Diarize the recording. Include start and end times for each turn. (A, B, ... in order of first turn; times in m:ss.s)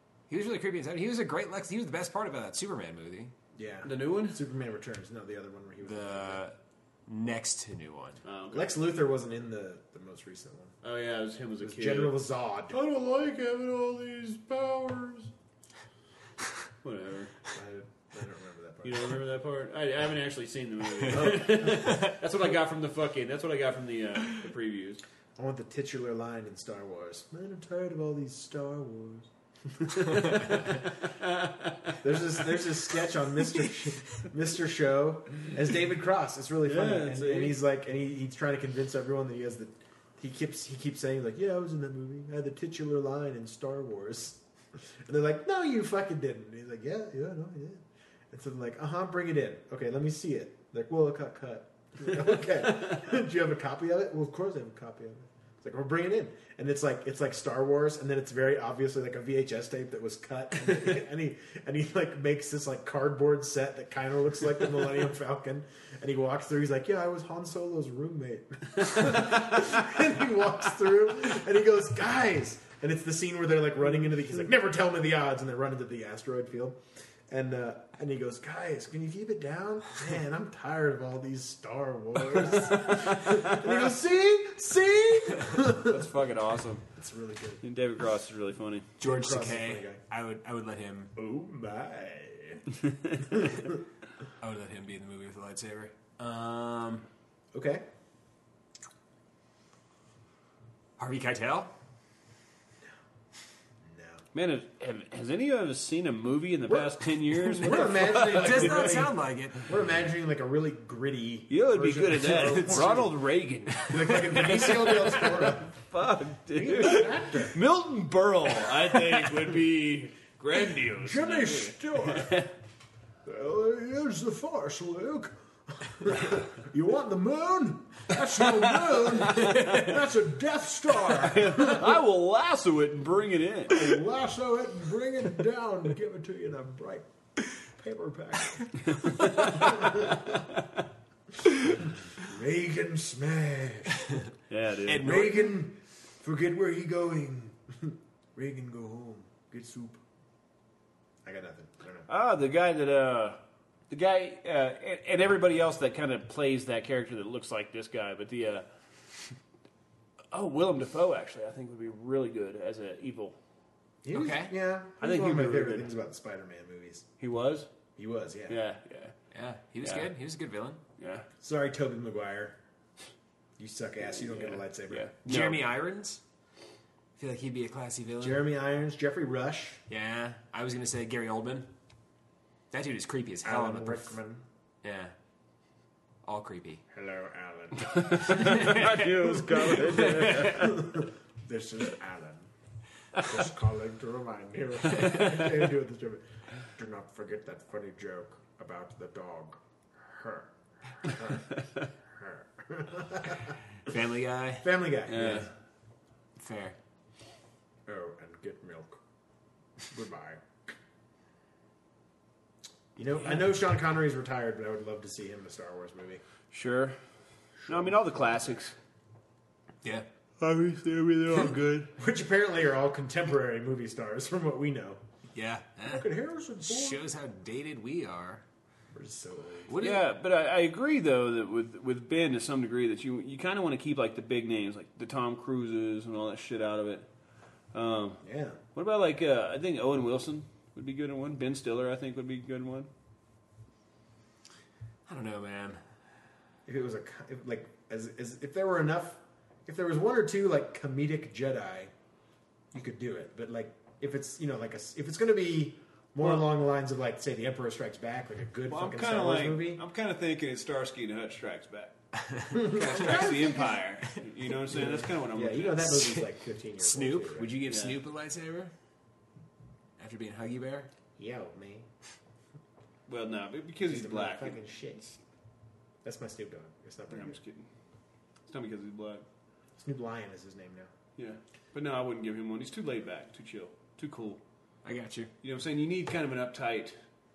0:00.3-0:03.3 A
0:03.5-0:06.4 B
0:03.8-0:04.4 C
0:05.8-0:08.2 A
0:08.2-0:08.7 C
0:08.5-0:10.8 B
0:10.8-0:12.2 C
0:11.6-0:12.8 B
0:12.7-0:15.3 C
0:16.8-0:17.3 C
0:17.5-0:19.1 B
0:18.8-0:25.0 C
0:21.2-0:22.1 A
0:25.4-0:30.7 B
0:29.9-0:32.0 C
0:32.0-1:26.1 B
0:36.6-0:37.6 C
1:25.8-1:26.8 C
1:26.9-1:27.6 B
1:27.6-1:28.9 C
1:29.0-1:31.1 A
1:29.0-1:30.0 B
1:31.2-1:32.6 B
1:32.9-1:33.2 C
1:33.2-1:33.8 B
1:34.4-1:37.1 A
1:37.5-1:37.9 B
1:41.0-1:41.7 A
1:43.8-1:44.2 B
1:44.4-1:49.0 C
1:46.7-1:53.1 B
1:47.6-1:49.7 A
1:51.5-2:02.5 C
1:52.4-1:53.1 A
1:53.9-1:55.7 B
1:56.5-1:57.6 B
2:00.9-2:02.4 B
2:03.2-2:12.0 B
2:08.4-2:10.0 C
2:11.0-2:13.8 C
2:13.7-2:20.4 B
2:18.8-2:20.8 C
2:21.4-2:24.0 B
2:24.5-2:25.2 C
2:24.9-2:25.6 A
2:25.0-2:30.0 B
2:31.2-2:32.1 B
2:32.1-2:38.7 C
2:40.3-2:43.4 C
2:44.0-2:47.1 B
2:44.1-2:44.5 A
2:45.0-2:45.9 C
2:47.2-2:47.7 C
2:48.0-2:48.6 B
2:48.5-2:49.1 C
2:49.3-2:50.8 A
2:49.8-2:50.1 C
2:51.0-2:51.3 C
2:51.4-2:52.6 B
2:53.6-2:55.1 B
2:54.1-2:55.7 C
2:55.2-2:56.2 A
2:57.2-2:58.4 A
2:58.2-2:59.8 B
2:59.9-3:01.7 A
3:02.7-3:04.1 A
3:03.4-3:04.4 B
3:04.8-3:05.1 A
3:06.2-3:06.8 A
3:06.9-3:08.5 B
3:07.9-3:10.9 C
3:08.4-3:10.6 A
3:10.0-3:12.5 B
3:13.2-3:21.5 B
3:21.6-3:21.9 C
3:22.1-3:23.6 B
3:23.8-3:25.4 A
3:24.6-3:25.5 B
3:25.1-3:25.5 C
3:26.4-3:26.8 A
3:27.9-3:29.0 B
3:29.9-3:30.4 B
3:33.0-3:36.2 B
3:36.5-3:37.0 C
3:37.6-3:38.6 B
3:37.6-3:38.8 C
3:40.4-3:41.9 C
3:42.0-3:45.0 B
3:45.3-3:46.1 A
3:45.9-3:47.0 B
3:46.6-3:48.4 A
3:48.9-3:49.7 B
3:49.7-3:50.1 A
3:49.8-3:57.1 C
3:57.7-3:58.2 C
3:58.2-3:58.6 B
3:58.8-4:02.9 C
4:05.1-4:05.8 A
4:06.6-4:11.9 B
4:12.7-4:19.8 B
4:18.7-4:22.0 C
4:22.1-4:24.2 A
4:22.5-4:23.8 B
4:22.6-4:26.0 C
4:24.7-4:27.6 B
4:25.8-4:28.7 A
4:27.6-4:28.0 C
4:30.0-4:30.9 A
4:31.2-4:31.9 B
4:33.1-4:34.6 C
4:33.8-4:35.2 B
4:36.0-4:37.4 B
4:37.1-4:37.7 C
4:38.5-4:39.2 C
4:39.8-4:40.9 B
4:41.2-4:44.4 C
4:44.8-4:45.3 A
4:45.4-4:46.9 C